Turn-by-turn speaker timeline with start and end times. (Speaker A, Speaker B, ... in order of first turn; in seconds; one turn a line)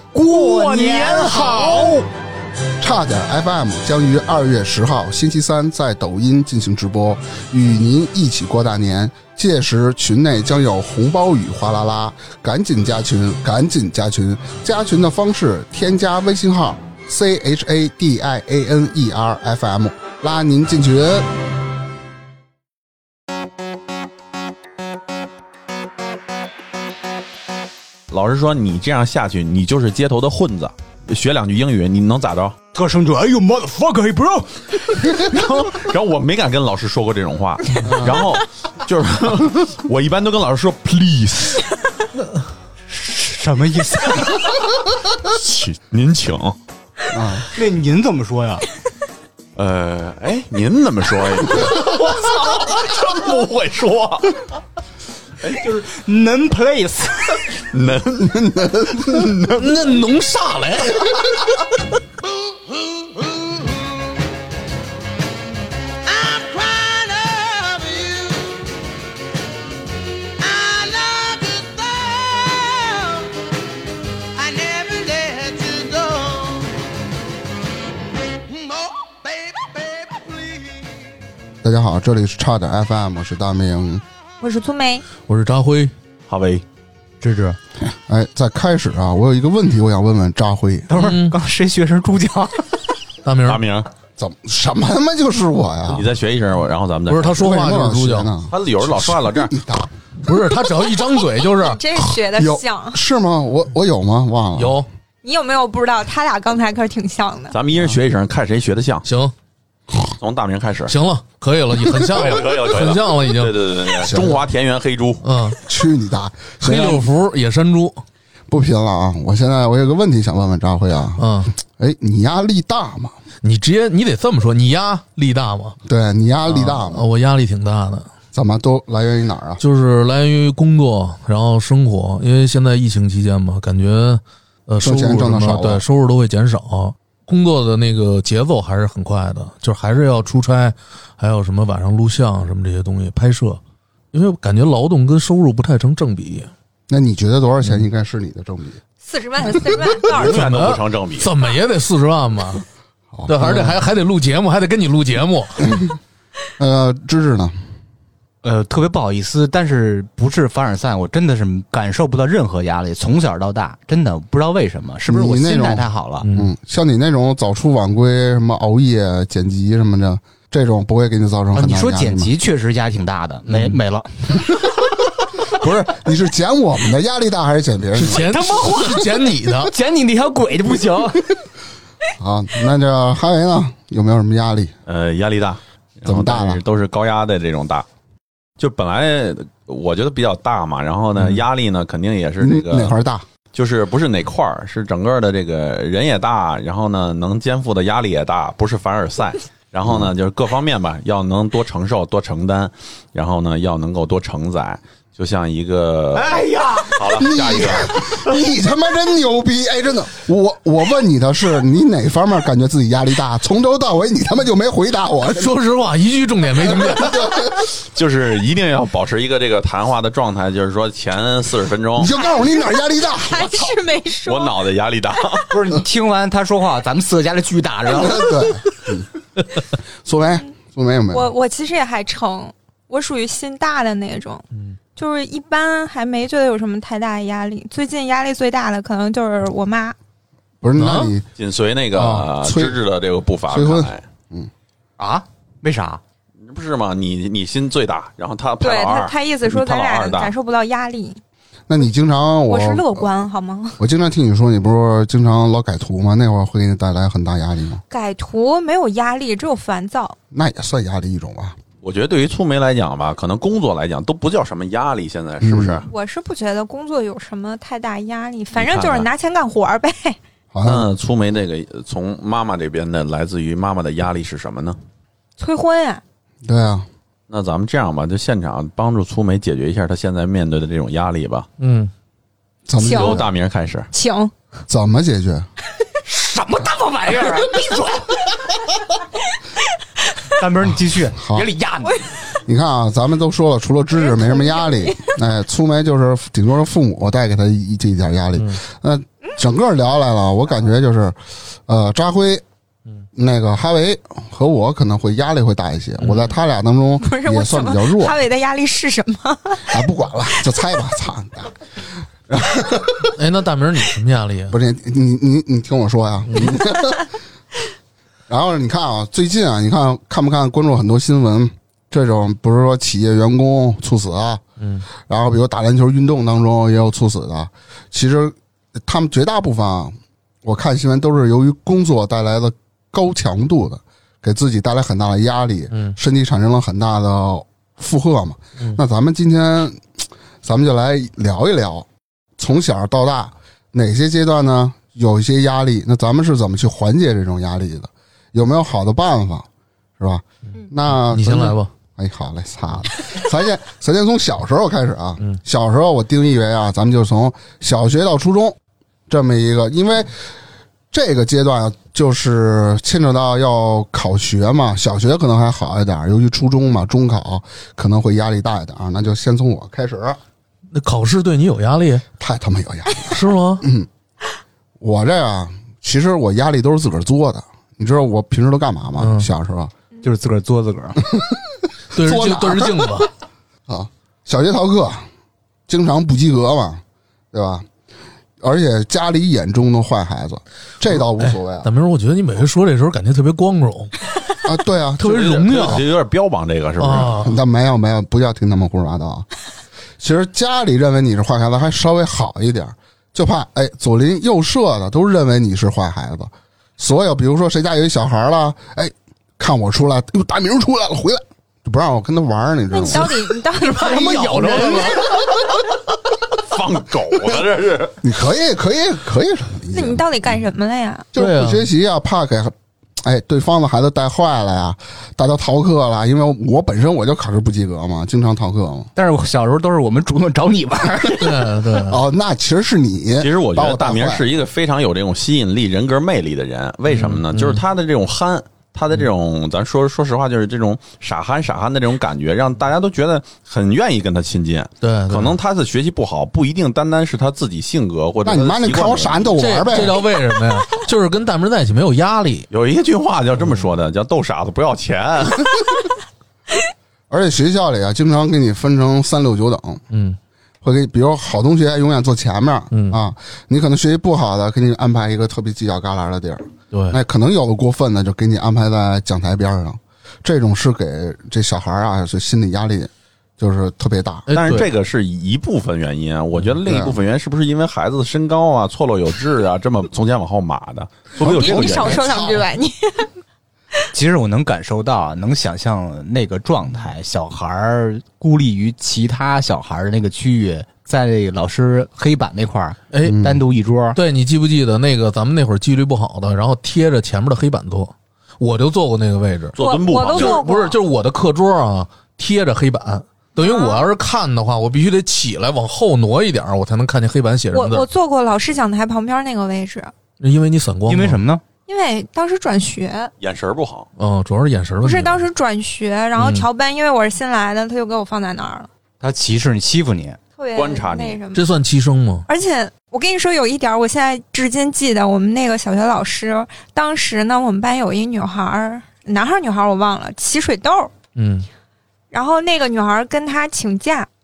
Speaker A: 0.1-2.0
Speaker B: 0.3-2.0
Speaker C: 2.8-21.3
Speaker D: 28.1-32.6
Speaker A: 32.7-35.8
Speaker D: 35.3-41.7
Speaker C: 37.8-38.2
Speaker A: 42.9-44.6
Speaker D: 45.2-46.5
Speaker C: 47.1-47.5
Speaker A: 47.5-48.6
Speaker D: 49.5-54.5
Speaker D: 55.4-55.8
Speaker A: 55.5-57.5
Speaker D: 57.7-59.6
Speaker C: 58.3-59.0
Speaker B: 59.5-61.3
Speaker E: 62.7-63.8
Speaker E: 66.0-68.6
Speaker E: 70.4-73.3
Speaker E: 74.3-76.7
Speaker E: 78.5-80.9
Speaker C: 81.6-84.0
Speaker F: 84.4-85.0
Speaker B: 85.3-85.9
Speaker D: 86.3-86.6
Speaker A: 87.2-87.6
Speaker C: 87.8-90.9
Speaker A: 90.9-92.7
Speaker B: 91.0-91.3
Speaker B: 93.2-93.6
Speaker D: 93.5-93.9
Speaker C: 94.2-96.1
Speaker D: 95.9-97.4
Speaker B: 97.1-98.3
Speaker C: 97.4-99.9
Speaker D: 98.5-99.5
Speaker B: 100.2-101.9
Speaker F: 101.6-103.0
Speaker C: 102.4-104.8
Speaker B: 104.5-104.9
Speaker F: 105.2-107.5
Speaker D: 107.5-109.1
Speaker B: 109.0-109.3
Speaker D: 110.2-110.9
Speaker B: 110.9-113.5
Speaker D: 111.9-115.2
Speaker C: 114.0-114.5
Speaker B: 115.2-115.6
Speaker C: 115.6-117.1
Speaker B: 116.6-118.0
Speaker C: 118.5-123.1
Speaker B: 121.2-121.5
Speaker B: 123.4-125.8
Speaker C: 125.8-127.0
Speaker B: 126.5-128.1
Speaker C: 128.3-129.6
Speaker B: 129.6-143.6
Speaker C: 134.8-135.8
Speaker B: 144.1-146.5
Speaker C: 146.9-148.8
Speaker F: 149.0-150.5
Speaker D: 150.1-151.3
Speaker B: 150.2-152.6
Speaker C: 153.1-153.8
Speaker B: 153.3-155.6
Speaker C: 155.6-155.9
Speaker C: 156.6-157.5
Speaker A: 158.4-166.3
Speaker C: 165.1-172.3
Speaker B: 166.2-166.5
Speaker A: 171.5-174.7
Speaker C: 175.4-178.4
Speaker B: 177.9-179.7
Speaker A: 178.1-181.4
Speaker C: 182.2-184.7
Speaker D: 184.8-187.8
Speaker C: 186.1-186.6
Speaker D: 188.6-192.9
Speaker C: 192.4-193.2
Speaker D: 193.5-208.3
Speaker A: 206.3-206.9
Speaker C: 207.0-215.5
Speaker B: 215.3-217.2
Speaker C: 216.7-217.7
Speaker D: 217.9-222.1
Speaker C: 221.9-223.7
Speaker F: 222.2-224.6
Speaker D: 224.2-225.5
Speaker A: 225.5-228.6
Speaker C: 227.9-229.1
Speaker C: 230.0-231.3
Speaker F: 231.1-239.9
Speaker C: 240.6-241.3
Speaker B: 240.8-241.1
Speaker D: 241.4-244.0
Speaker C: 241.9-242.8
Speaker C: 243.5-244.5
Speaker A: 245.0-246.0
Speaker D: 246.4-250.3
Speaker F: 248.6-251.2
Speaker C: 251.7-253.1
Speaker F: 252.5-253.8
Speaker C: 253.8-257.8
Speaker F: 257.9-260.2
Speaker C: 260.3-261.6
Speaker D: 261.8-265.9
Speaker C: 265.4-265.8
Speaker F: 265.9-270.2
Speaker D: 268.5-269.1
Speaker C: 270.5-270.9
Speaker D: 270.6-274.8
Speaker F: 275.4-276.0
Speaker C: 276.4-276.9
Speaker D: 277.3-281.5
Speaker B: 281.6-281.9
Speaker C: 282.7-283.3
Speaker F: 282.8-283.2
Speaker D: 282.9-283.9
Speaker F: 283.9-284.3
Speaker C: 284.7-285.5
Speaker A: 286.0-288.2
Speaker A: 290.3-292.1
Speaker C: 291.0-291.5
Speaker F: 291.8-292.2
Speaker C: 292.4-302.4
Speaker F: 294.0-295.1
Speaker C: 303.1-308.2
Speaker B: 306.0-306.3
Speaker F: 307.0-309.7
Speaker C: 309.6-311.5
Speaker C: 312.3-313.1
Speaker B: 313.1-314.6
Speaker C: 314.5-317.1
Speaker B: 316.3-316.6
Speaker C: 318.3-324.4
Speaker B: 324.6-324.9
Speaker C: 325.0-349.5
Speaker B: 335.7-336.0
Speaker C: 350.0-358.6
Speaker B: 350.9-351.7
Speaker C: 359.1-360.2
Speaker C: 360.9-370.2
Speaker B: 370.7-372.0
Speaker C: 372.2-373.9
Speaker B: 373.1-373.6
Speaker C: 374.8-379.7
Speaker B: 379.0-379.3
Speaker A: 380.0-381.0
Speaker C: 381.0-383.0
Speaker B: 381.9-383.1
Speaker C: 383.7-385.1
Speaker C: 385.7-387.6
Speaker C: 388.4-391.7
Speaker B: 391.1-393.9
Speaker C: 394.4-395.2
Speaker B: 395.0-395.8
Speaker D: 395.0-397.2
Speaker B: 396.8-397.4
Speaker C: 397.1-399.3
Speaker C: 400.0-415.2
Speaker F: 412.7-414.7
Speaker B: 413.6-415.2
Speaker D: 416.4-418.0
Speaker C: 418.0-420.1
Speaker F: 419.7-421.1
Speaker C: 421.1-428.9
Speaker B: 421.1-421.7
Speaker A: 428.9-431.5
Speaker B: 431.2-432.0
Speaker C: 431.8-434.3
Speaker D: 433.2-449.4
Speaker B: 436.9-437.6
Speaker B: 444.8-445.3
Speaker C: 448.2-450.0
Speaker B: 449.4-452.5
Speaker D: 452.5-455.7
Speaker C: 457.1-459.8
Speaker B: 459.9-460.2
Speaker C: 460.6-474.3
Speaker B: 462.7-463.0
Speaker B: 466.7-467.0
Speaker B: 474.3-474.7
Speaker D: 474.3-482.4
Speaker C: 476.6-476.9
Speaker C: 481.2-482.4
Speaker F: 481.2-483.1
Speaker A: 483.9-494.0
Speaker B: 492.9-493.2
Speaker C: 493.0-493.4
Speaker B: 493.9-499.6
Speaker D: 499.6-500.4
Speaker F: 499.6-500.8
Speaker B: 500.1-507.9
Speaker F: 503.4-503.9
Speaker F: 507.5-509.9
Speaker B: 510.2-511.2
Speaker A: 510.9-511.4
Speaker F: 511.7-513.1
Speaker D: 513.2-513.9
Speaker B: 514.0-515.2
Speaker F: 514.8-518.7
Speaker B: 516.2-516.5
Speaker A: 519.0-520.2
Speaker F: 520.4-521.5
Speaker D: 520.5-521.2
Speaker B: 521.3-522.3
Speaker F: 522.3-530.9
Speaker B: 531.1-531.5
Speaker F: 532.1-534.1